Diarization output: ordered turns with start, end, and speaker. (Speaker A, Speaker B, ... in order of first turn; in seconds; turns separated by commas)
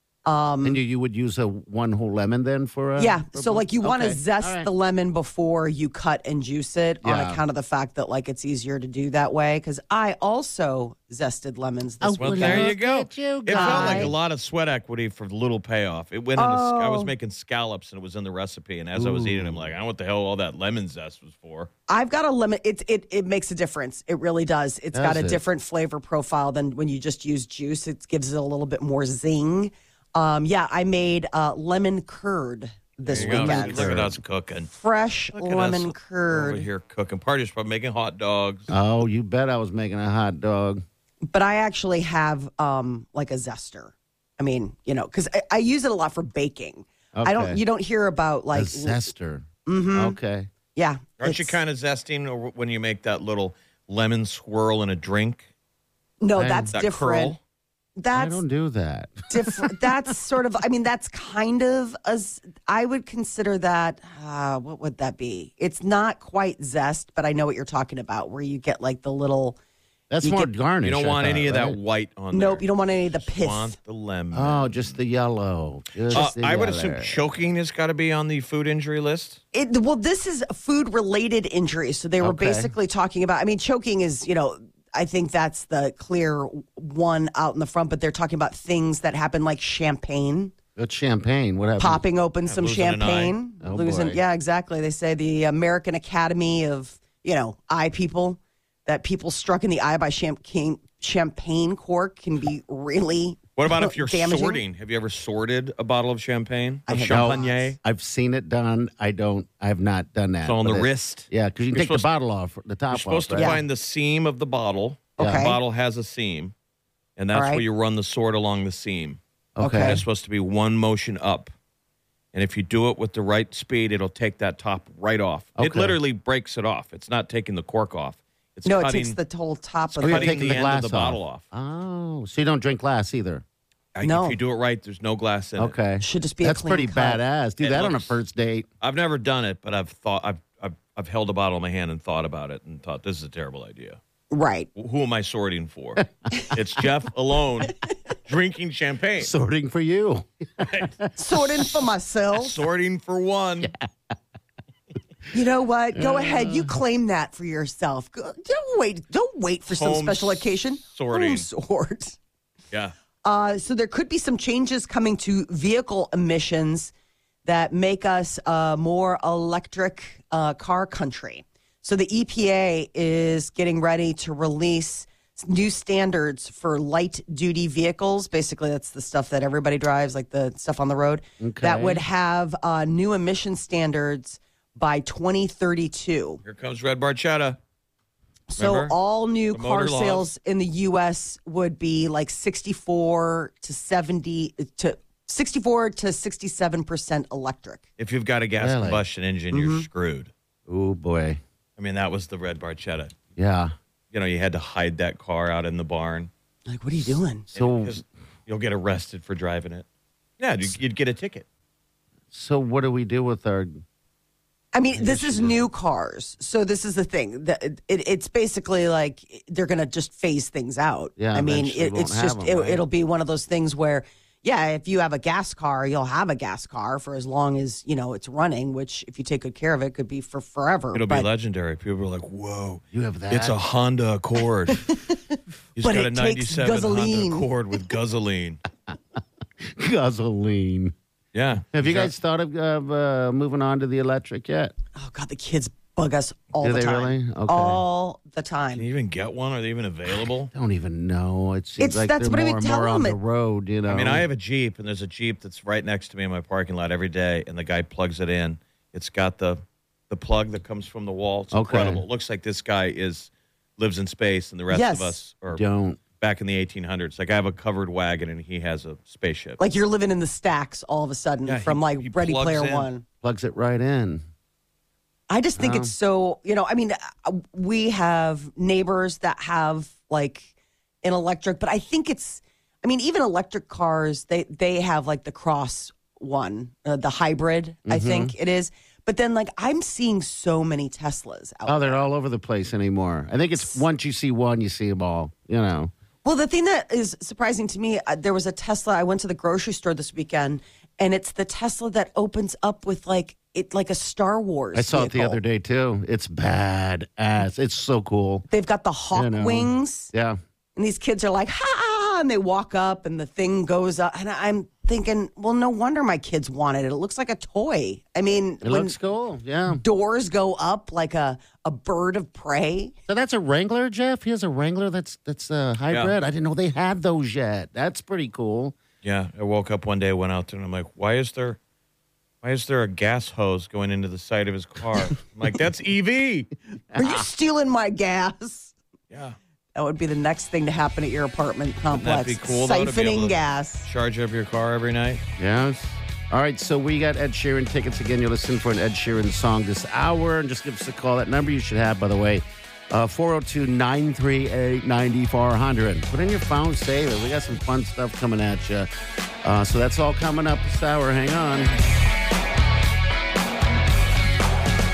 Speaker A: 0.2-0.8, Speaker B: 0.6-4.7, Speaker A: 3.0-12.7, Speaker B: 7.0-7.4, Speaker B: 12.0-14.2, Speaker C: 12.2-21.7, Speaker A: 13.5-14.1, Speaker A: 16.4-17.1, Speaker B: 18.9-19.7, Speaker A: 21.9-33.9, Speaker B: 24.9-25.4, Speaker C: 33.1-34.7, Speaker B: 33.1-34.2, Speaker A: 34.7-36.7, Speaker C: 35.3-38.7, Speaker B: 38.7-40.8, Speaker A: 41.3-49.0, Speaker B: 47.1-47.6, Speaker B: 48.5-50.5, Speaker A: 49.6-50.2, Speaker A: 50.7-51.6, Speaker C: 51.2-55.5, Speaker A: 56.2-57.4, Speaker B: 56.4-56.7, Speaker C: 56.7-57.4, Speaker A: 58.0-58.4, Speaker B: 58.1-59.8, Speaker A: 59.3-69.5, Speaker B: 70.1-71.8, Speaker A: 70.2-70.5, Speaker C: 70.8-75.0, Speaker A: 72.3-73.7, Speaker B: 74.3-77.2, Speaker C: 76.1-79.4, Speaker A: 79.5-90.5, Speaker B: 82.2-82.7, Speaker B: 90.8-92.0, Speaker A: 91.8-104.6, Speaker C: 92.5-93.3, Speaker B: 93.6-94.2, Speaker C: 103.6-107.8, Speaker A: 106.9-107.5, Speaker B: 107.1-113.5, Speaker C: 110.4-112.1, Speaker C: 112.9-116.5, Speaker A: 113.3-113.6, Speaker A: 115.2-115.6, Speaker B: 115.2-115.4, Speaker C: 117.2-119.2, Speaker A: 117.3-117.6, Speaker B: 119.5-120.0, Speaker A: 119.6-120.0, Speaker C: 119.8-121.5, Speaker C: 122.3-129.2, Speaker B: 125.6-126.0, Speaker A: 128.7-130.4, Speaker C: 129.9-131.4, Speaker B: 130.0-133.4, Speaker C: 133.9-135.8, Speaker A: 134.0-134.4, Speaker B: 135.6-138.7, Speaker A: 136.0-137.2, Speaker C: 137.6-138.2, Speaker C: 138.8-144.0, Speaker A: 144.3-144.7, Speaker C: 144.8-149.3, Speaker B: 149.2-151.1, Speaker C: 150.6-150.9, Speaker A: 151.2-152.6, Speaker C: 152.3-153.7, Speaker B: 153.6-153.9, Speaker A: 155.3-162.2, Speaker B: 155.9-156.8, Speaker C: 159.7-161.5, Speaker A: 163.2-166.9, Speaker A: 167.4-186.4, Speaker B: 181.4-182.0, Speaker C: 186.4-187.6, Speaker A: 188.5-197.8, Speaker C: 188.6-188.9, Speaker C: 189.5-190.3, Speaker C: 198.0-200.3, Speaker B: 198.6-199.0, Speaker A: 199.5-199.9, Speaker B: 200.7-201.4, Speaker C: 201.8-203.1, Speaker B: 203.3-203.7, Speaker C: 204.1-206.3, Speaker A: 206.7-207.4, Speaker C: 207.5-209.8, Speaker B: 207.5-208.0, Speaker C: 210.4-211.4, Speaker B: 212.3-213.8, Speaker A: 214.7-231.3, Speaker B: 214.9-215.6, Speaker B: 221.2-222.8, Speaker C: 230.9-234.9, Speaker B: 232.9-233.6, Speaker A: 234.7-237.5, Speaker C: 235.8-238.6, Speaker B: 239.6-240.9, Speaker C: 241.3-242.1, Speaker B: 241.7-244.7, Speaker A: 244.9-248.8, Speaker B: 246.6-247.8, Speaker C: 248.7-250.5, Speaker B: 250.5-254.2, Speaker A: 251.8-253.2, Speaker C: 253.9-265.6, Speaker B: 261.5-262.0, Speaker A: 264.7-265.2, Speaker B: 265.5-266.0, Speaker C: 266.1-269.6, Speaker A: 269.6-273.0, Speaker C: 271.4-272.9, Speaker B: 273.2-274.2, Speaker A: 275.3-280.5, Speaker B: 275.6-275.9, Speaker A: 281.0-292.0, Speaker B: 287.9-288.3, Speaker B: 291.6-295.9, Speaker A: 296.2-305.4, Speaker B: 304.7-308.5, Speaker A: 308.5-310.1, Speaker B: 309.1-310.4, Speaker A: 310.8-318.9, Speaker B: 318.6-319.8, Speaker A: 319.8-322.9, Speaker B: 323.1-328.8, Speaker C: 329.0-331.6, Speaker C: 332.4-336.5, Speaker B: 336.9-337.2, Speaker A: 336.9-338.7, Speaker C: 339.1-339.4, Speaker A: 339.7-343.9, Speaker C: 341.9-345.2, Speaker B: 345.4-358.9, Speaker B: 359.4-361.7